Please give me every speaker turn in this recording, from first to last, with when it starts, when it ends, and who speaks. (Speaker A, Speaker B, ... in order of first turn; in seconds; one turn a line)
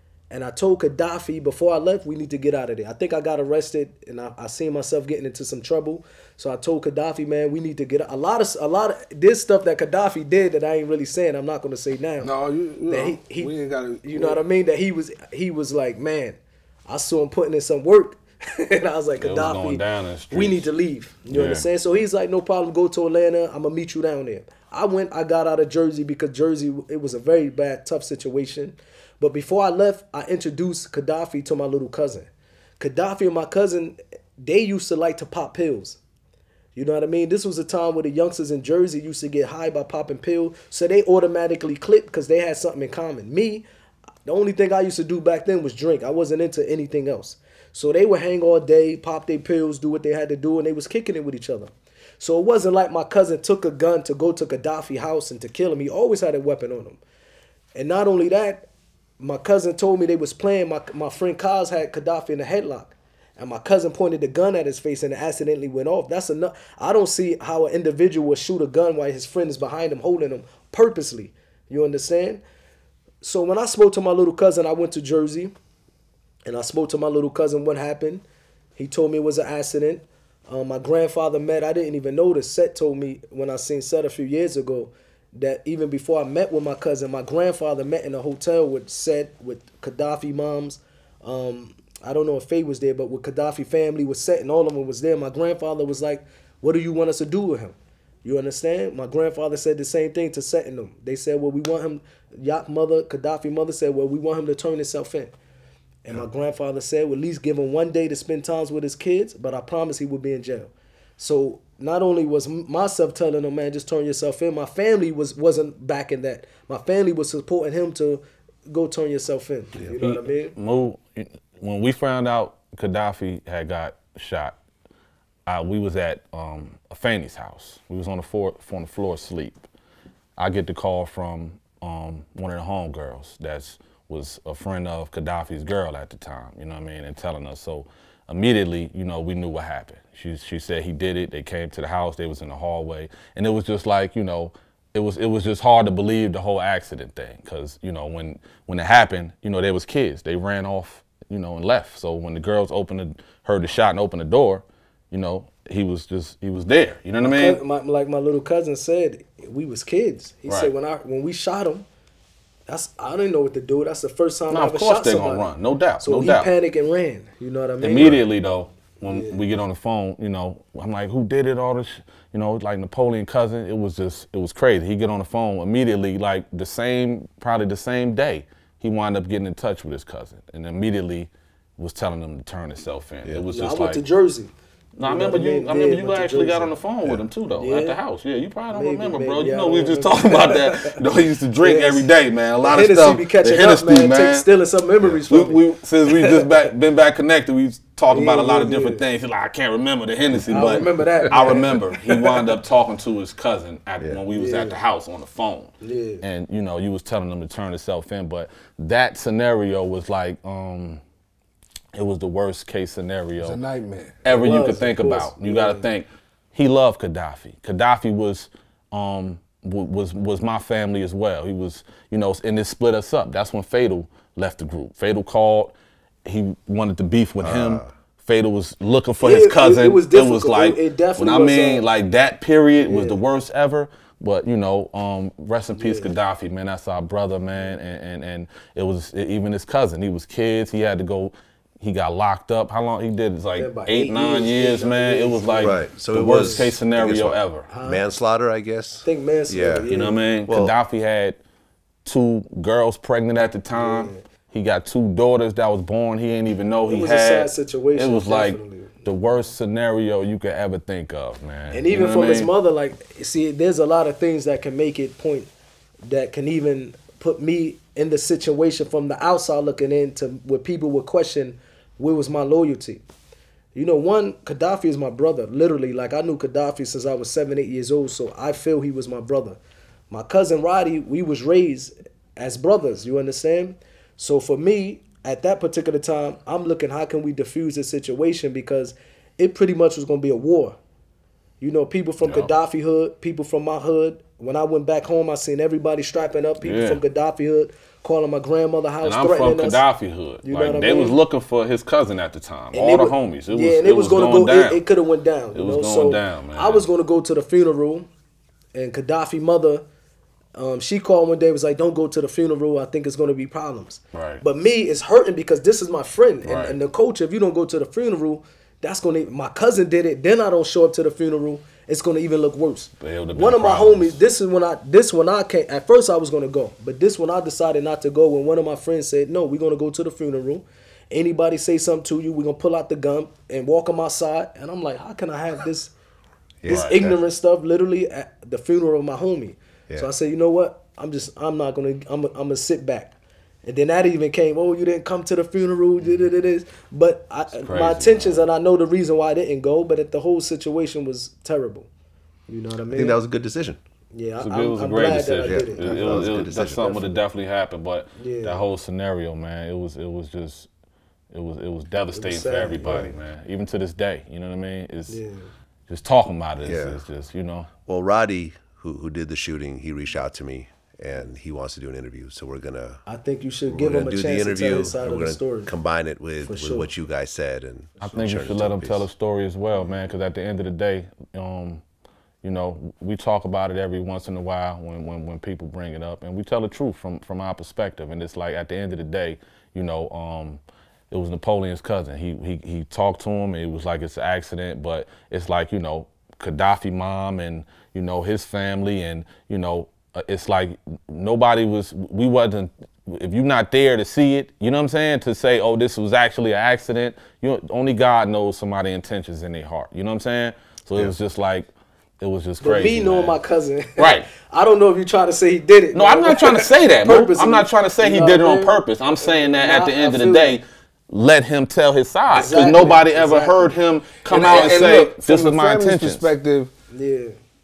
Speaker A: 0.3-12.3
Speaker B: 12.2-14.4
Speaker A: 12.9-36.0
Speaker C: 19.2-20.7
Speaker C: 21.3-21.6
Speaker A: 36.7-43.6
Speaker A: 44.2-57.0
Speaker A: 57.7-58.7
Speaker A: 59.2-72.4
Speaker A: 73.2-75.5
Speaker A: 76.4-78.2
Speaker A: 78.8-105.3
Speaker A: 106.0-120.5
Speaker C: 119.8-124.5
Speaker C: 125.5-129.6
Speaker C: 130.4-157.6
Speaker A: 157.2-161.8
Speaker A: 162.7-165.5
Speaker C: 164.5-166.5
Speaker A: 166.0-168.2
Speaker C: 167.8-184.0
Speaker A: 169.0-169.4
Speaker A: 183.5-184.5
Speaker C: 184.9-194.5
Speaker A: 185.0-186.8
Speaker A: 187.6-188.0
Speaker A: 188.7-191.0
Speaker A: 191.6-192.1
Speaker A: 192.6-196.6
Speaker C: 195.1-211.0
Speaker A: 198.1-199.0
Speaker A: 200.5-201.8
Speaker A: 204.3-204.8
Speaker A: 205.8-206.2
Speaker C: 211.9-213.6
Speaker B: 213.4-214.4
Speaker C: 214.2-247.7
Speaker A: 214.4-215.9
Speaker D: 227.4-227.9
Speaker A: 229.2-231.8
Speaker A: 232.8-233.2
Speaker A: 235.7-236.1
Speaker A: 243.6-246.7
Speaker D: 245.6-249.9
Speaker A: 247.7-248.1
Speaker A: 249.0-250.2
Speaker C: 249.9-251.4
Speaker D: 250.5-250.7
Speaker C: 252.0-262.5
Speaker A: 253.7-254.2
Speaker A: 256.9-259.1
Speaker A: 261.7-265.5
Speaker A: 266.1-273.0
Speaker A: 273.7-279.6
Speaker A: 280.1-290.8
Speaker A: 291.6-299.8
Speaker C: 292.2-292.5
Speaker C: 296.6-297.0
Speaker C: 299.0-304.8
Speaker A: 300.4-301.2
Speaker A: 302.7-308.1
Speaker C: 305.5-306.8
Speaker A: 308.7-309.8
Speaker A: 310.5-335.9
Speaker C: 314.1-314.4
Speaker C: 316.4-316.8
Speaker C: 323.0-324.2
Speaker D: 336.6-337.2
Speaker C: 336.6-337.0
Speaker A: 336.6-351.9
Speaker C: 347.5-348.4
Speaker A: 352.5-353.2
Speaker D: 352.9-353.8
Speaker A: 354.1-357.2
Speaker C: 354.4-360.7
Speaker D: 355.4-357.0
Speaker A: 358.2-358.6
Speaker C: 361.3-365.2
Speaker A: 362.1-363.1
Speaker D: 362.8-363.1
Speaker A: 365.1-365.5
Speaker C: 365.9-367.7
Speaker D: 366.6-367.0
Speaker D: 367.9-373.0
Speaker A: 373.1-375.7
Speaker D: 373.7-379.1
Speaker A: 376.4-376.9
Speaker C: 378.0-381.8
Speaker C: 382.4-411.7
Speaker C: 412.2-413.4
Speaker A: 412.6-420.6
Speaker C: 414.0-414.3
Speaker C: 415.9-426.3
Speaker A: 422.3-423.7
Speaker B: 424.3-426.7
Speaker A: 426.9-427.3